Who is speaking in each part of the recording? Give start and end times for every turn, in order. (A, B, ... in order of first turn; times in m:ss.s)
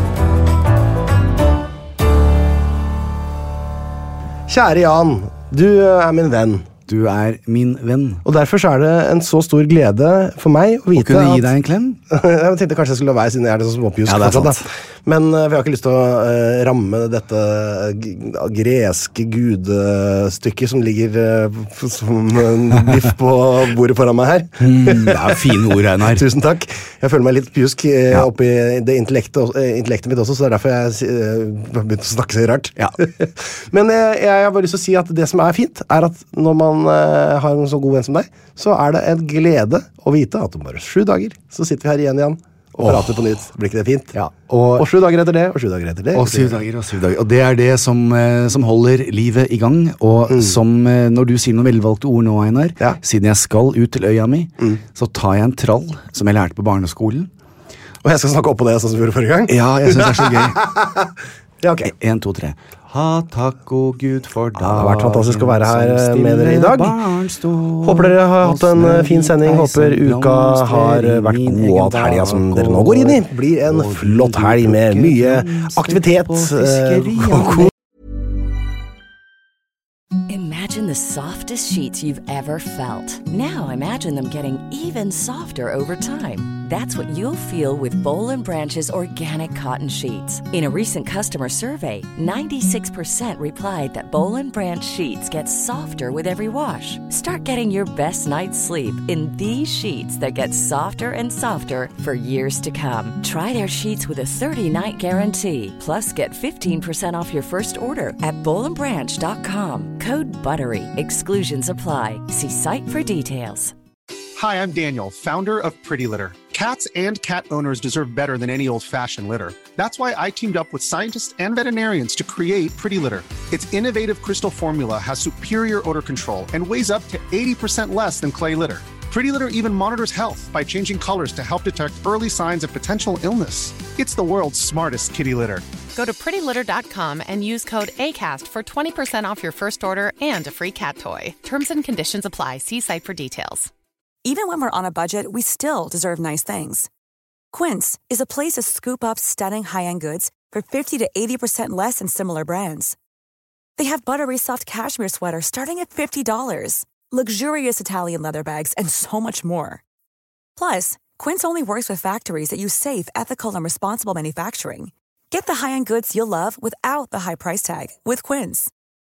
0:04.5-0:06.7 A
0:06.9-0:08.2 B
0:08.2-0:11.5 A
0:10.9-0:12.0 B
0:12.1-0:25.5 A
0:14.0-0:14.7 B
0:24.6-0:26.2 B
0:26.1-0:44.1 A
0:42.8-0:43.1 B
0:44.1-0:44.9 B
0:44.8-0:46.5 A
0:46.1-0:57.3 B
0:58.0-1:01.1 A
0:59.5-1:00.6 B
1:01.6-1:01.9 A
1:01.8-1:17.7 B
1:04.6-1:07.0 A
1:07.8-1:17.7 A
1:20.3-1:53.7 C
1:54.4-2:15.6 D
2:15.9-2:23.7 E
2:24.2-2:26.9 F
2:27.5-2:33.0 F
2:33.8-2:39.8 F
2:40.6-2:48.7 F